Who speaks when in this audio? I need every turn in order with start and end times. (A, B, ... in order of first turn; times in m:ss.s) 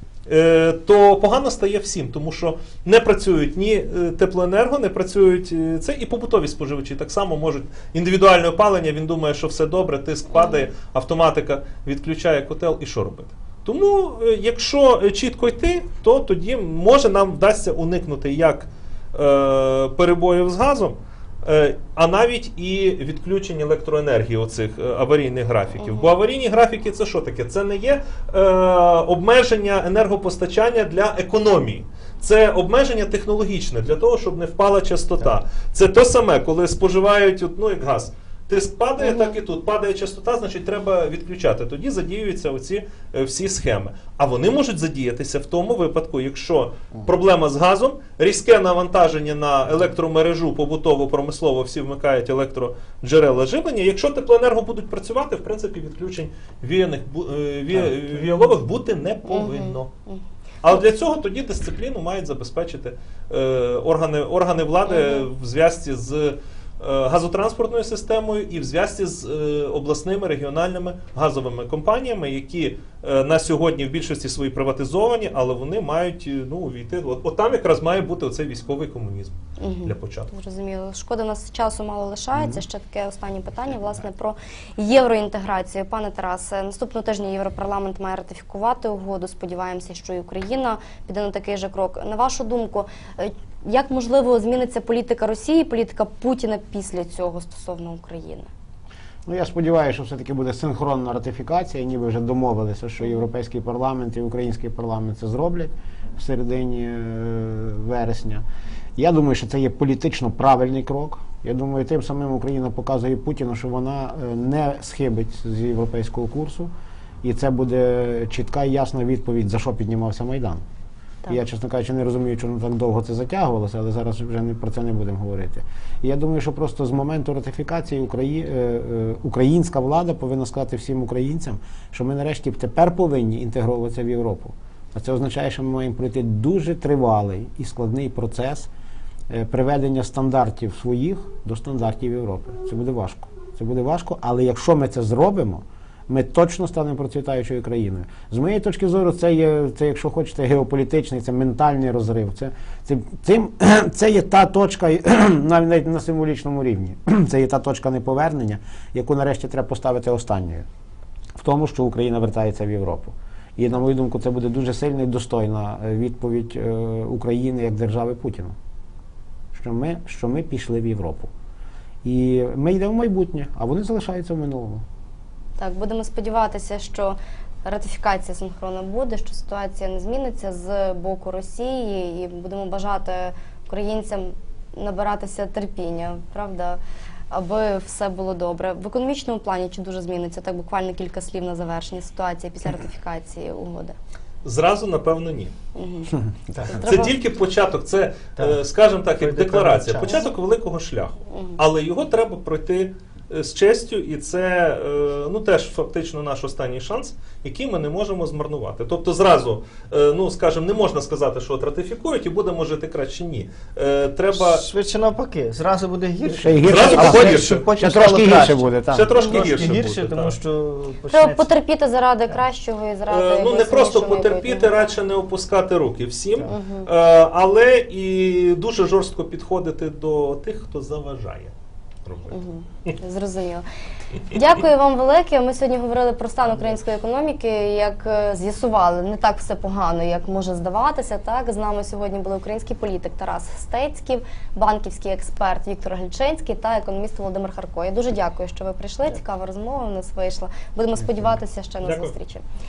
0:00.3-0:59.9 A
0:10.3-0:10.7 B
0:25.8-0:26.1 B
0:39.0-0:39.4 B
0:59.3-1:00.8 B
1:00.6-1:20.3 A
1:04.9-1:05.3 B
1:19.6-1:38.5 B
1:22.4-1:22.6 C
1:39.3-1:48.4 C
1:49.0-1:56.7 C
1:57.2-2:00.6 C
2:01.3-2:18.7 C
2:19.3-2:40.6 C
2:41.4-2:48.6 C
2:49.5-2:51.3 C
2:52.0-2:54.8 C
2:55.6-3:06.8 B
3:07.3-3:14.0 B
3:14.4-3:15.5 A
3:15.8-3:17.2 B
3:16.6-3:16.9 D
3:16.7-3:34.7 A
3:19.2-3:20.3 D
3:20.1-3:20.3 B
3:21.3-3:21.6 B
3:34.3-3:41.5 D
3:36.3-3:39.1 C
3:36.6-3:37.7 A
3:38.9-3:40.4 A
3:41.1-3:44.9 B
3:43.1-3:51.5 A
3:46.5-3:46.9 B
3:52.0-3:52.9 A
3:52.3-3:53.7 B
3:54.3-4:12.4 B
4:11.8-4:12.1 A